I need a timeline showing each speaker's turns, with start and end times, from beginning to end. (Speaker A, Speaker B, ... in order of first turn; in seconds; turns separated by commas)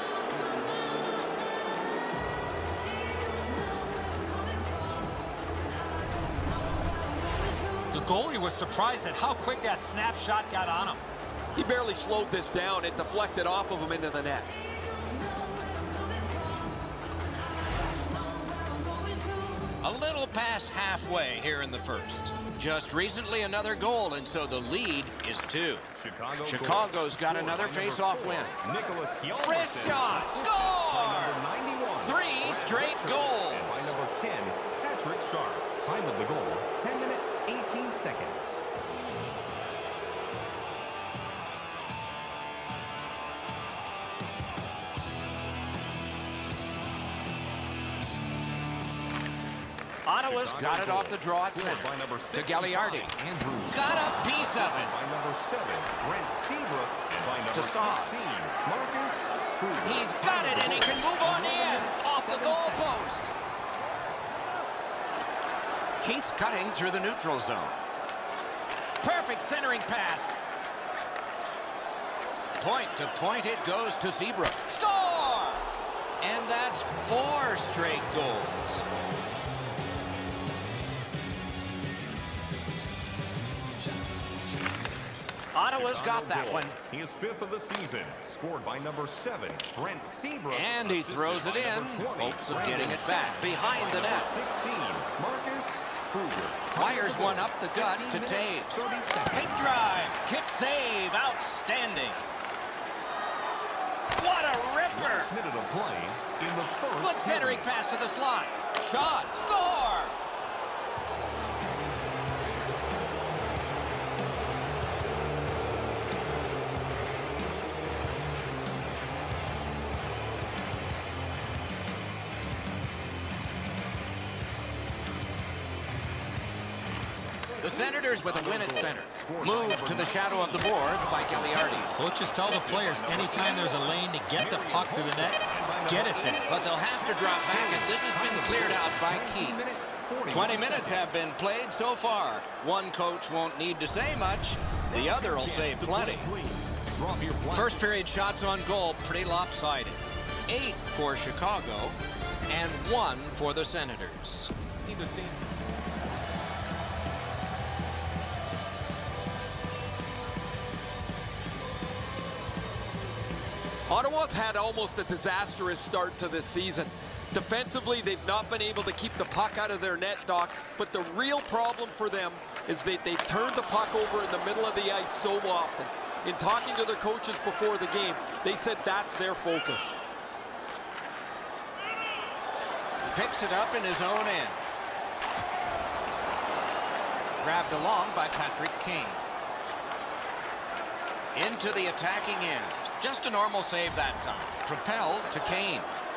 Speaker A: 7.9-11.0, Speaker B: 11.5-14.5, Speaker C: 19.8-25.9, Speaker D: 25.9-38.6, Speaker C: 26.4-28.6, Speaker C: 29.4-31.4, Speaker C: 32.0-33.9, Speaker C: 50.0-53.1, Speaker D: 50.2-63.0, Speaker C: 53.7-54.9, Speaker C: 57.5-58.2, Speaker C: 59.8-63.3, Speaker C: 66.0-67.8, Speaker C: 69.0-70.3, Speaker C: 72.6-75.7, Speaker C: 76.2-78.8, Speaker C: 85.5-86.8, Speaker D: 85.7-99.7, Speaker C: 90.5-94.3, Speaker C: 96.7-102.2, Speaker C: 104.2-105.3, Speaker D: 104.9-107.7, Speaker C: 107.0-110.2, Speaker D: 127.5-141.1, Speaker C: 127.6-132.0, Speaker A: 131.9-136.4, Speaker C: 135.9-146.3, Speaker D: 144.9-147.8, Speaker C: 147.5-154.5, Speaker D: 154.8-155.4, Speaker B: 163.9-179.9, Speaker C: 183.0-184.7, Speaker C: 187.4-189.2, Speaker C: 191.3-195.9